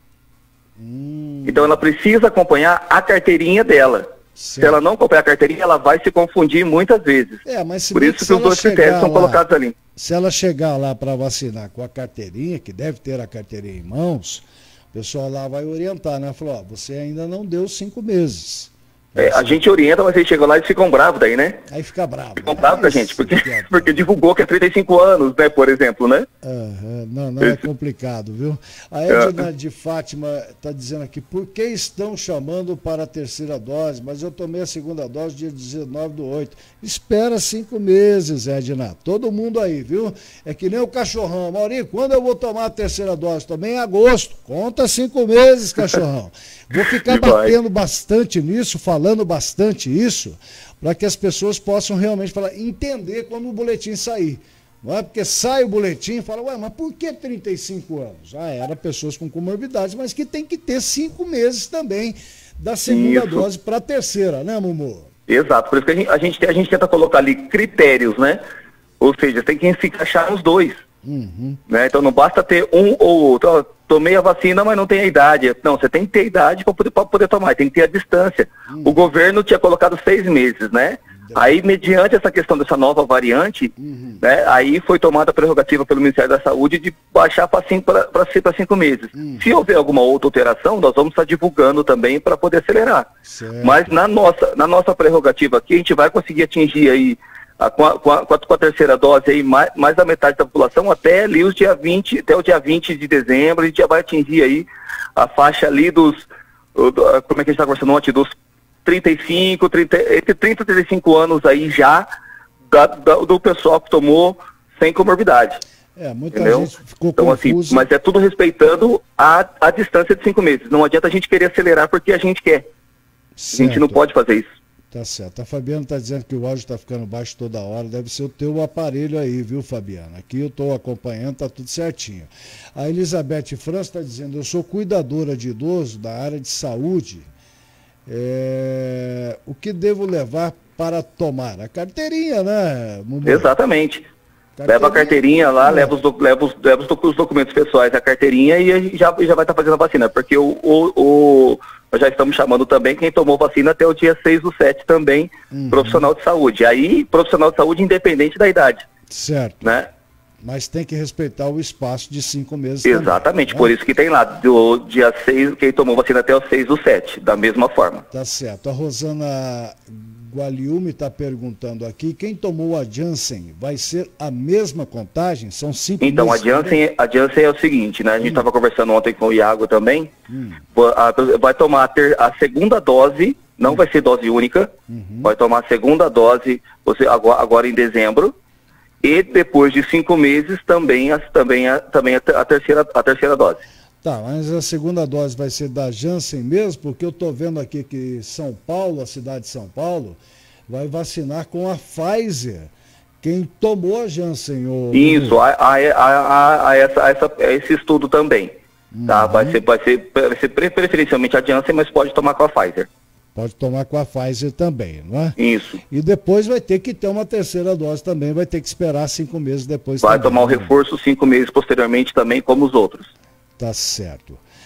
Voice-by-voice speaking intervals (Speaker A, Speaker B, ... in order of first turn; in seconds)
Speaker A: 0.8-1.8, 4.3-4.8, 7.4-9.4, 9.9-19.6, 21.7-24.1, 26.4-65.1, 71.0-71.6, 78.7-79.1, 81.1-81.6, 83.8-84.2, 89.1-89.5, 93.2-93.9, 116.0-117.9, 123.4-124.0, 124.9-137.3, 138.1-143.5, 144.6-145.9, 155.5-156.1, 159.1-159.8, 160.4-163.7, 168.1-176.8, 180.3-180.6, 184.9-185.3, 194.0-205.4, 208.9-209.6, 213.3-215.3, 215.9-220.7, 223.6-224.4
Speaker B: 1.4-4.1, 4.6-7.4, 7.9-9.7, 19.1-21.6, 22.4-26.3, 29.1-29.4, 46.8-47.5, 62.9-63.5, 65.3-68.4, 69.0-70.8, 71.7-93.1, 93.6-104.7, 105.2-108.3, 108.8-112.1, 112.7-115.6, 116.3-122.7, 123.5-124.5, 143.2-144.0, 144.7-158.8, 159.6-159.9, 162.8-168.0, 176.0-180.1, 180.7-184.7, 185.2-188.3, 189.0-193.6, 204.9-208.5, 209.1-212.9, 215.4-215.8, 220.0-223.1